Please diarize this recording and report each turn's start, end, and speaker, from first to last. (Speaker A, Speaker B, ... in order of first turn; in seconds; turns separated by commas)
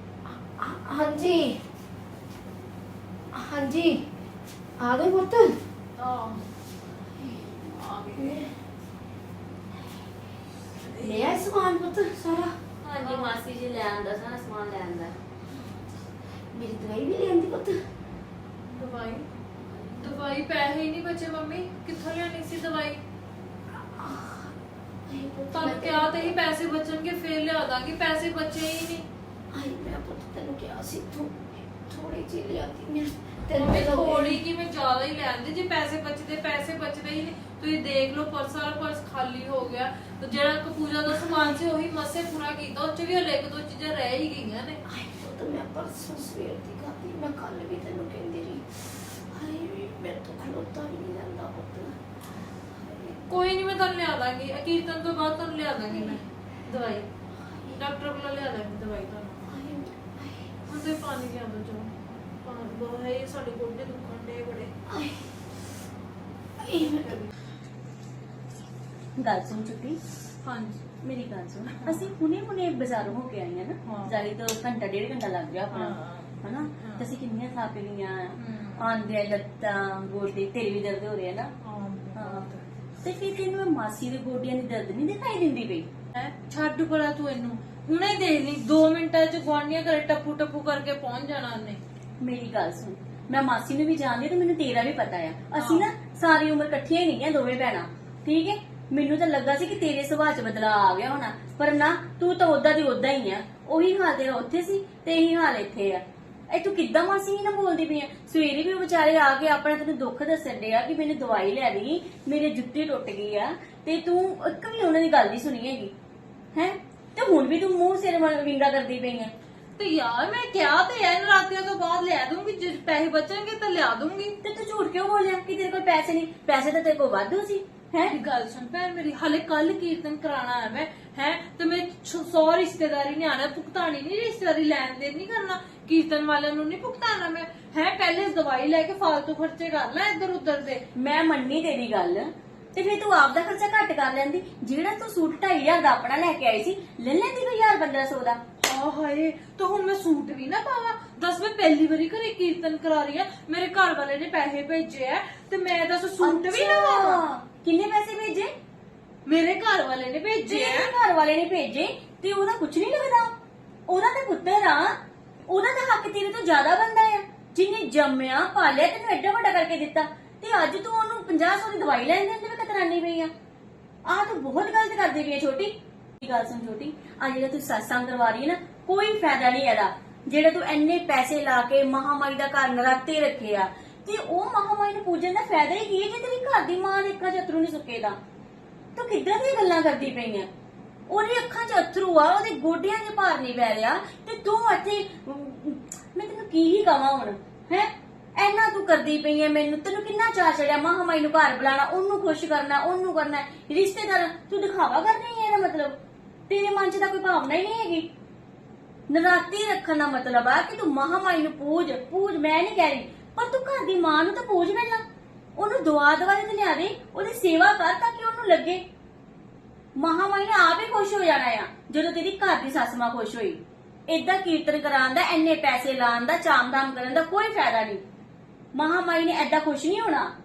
Speaker A: 0.3-1.6, Speaker A: 3.3-4.1, Speaker A: 4.8-5.6, Speaker B: 6.0-6.5, Speaker B: 7.7-8.5, Speaker A: 8.1-8.6, Speaker B: 10.8-11.4, Speaker A: 11.0-12.6, Speaker C: 12.8-15.2, Speaker B: 13.0-13.3, Speaker A: 16.5-17.8, Speaker B: 18.7-19.3, Speaker B: 20.0-23.0, Speaker A: 23.8-24.5, Speaker A: 25.1-26.4, Speaker B: 25.5-29.1, Speaker A: 29.5-34.4, Speaker B: 33.5-44.8, Speaker A: 41.1-41.6, Speaker A: 44.9-53.2, Speaker B: 53.3-57.1, Speaker A: 55.9-56.2, Speaker A: 57.4-57.8, Speaker B: 57.8-59.5, Speaker A: 59.5-60.5, Speaker B: 60.6-64.7, Speaker A: 64.9-65.4, Speaker A: 66.6-67.2, Speaker B: 66.8-67.3, Speaker C: 69.2-70.0, Speaker B: 70.5-70.8, Speaker C: 71.0-81.5, Speaker B: 71.7-72.1, Speaker B: 73.8-74.3, Speaker B: 75.7-77.1, Speaker B: 78.4-78.9, Speaker B: 81.6-82.7, Speaker C: 82.2-82.5, Speaker C: 83.0-85.9, Speaker B: 86.1-91.8, Speaker C: 92.2-115.9, Speaker B: 95.6-95.9, Speaker C: 116.5-119.3, Speaker B: 119.8-124.4, Speaker C: 124.4-128.2, Speaker B: 128.0-140.8, Speaker C: 140.9-148.4, Speaker B: 148.6-157.2, Speaker C: 156.2-158.5, Speaker B: 159.3-160.9, Speaker C: 160.5-163.3, Speaker C: 163.9-165.0, Speaker C: 165.5-173.3, Speaker C: 174.1-188.2, Speaker C: 188.9-190.5, Speaker C: 191.1-208.1, Speaker C: 209.1-215.0, Speaker C: 215.6-218.8, Speaker C: 220.0-228.0, Speaker C: 228.7-230.3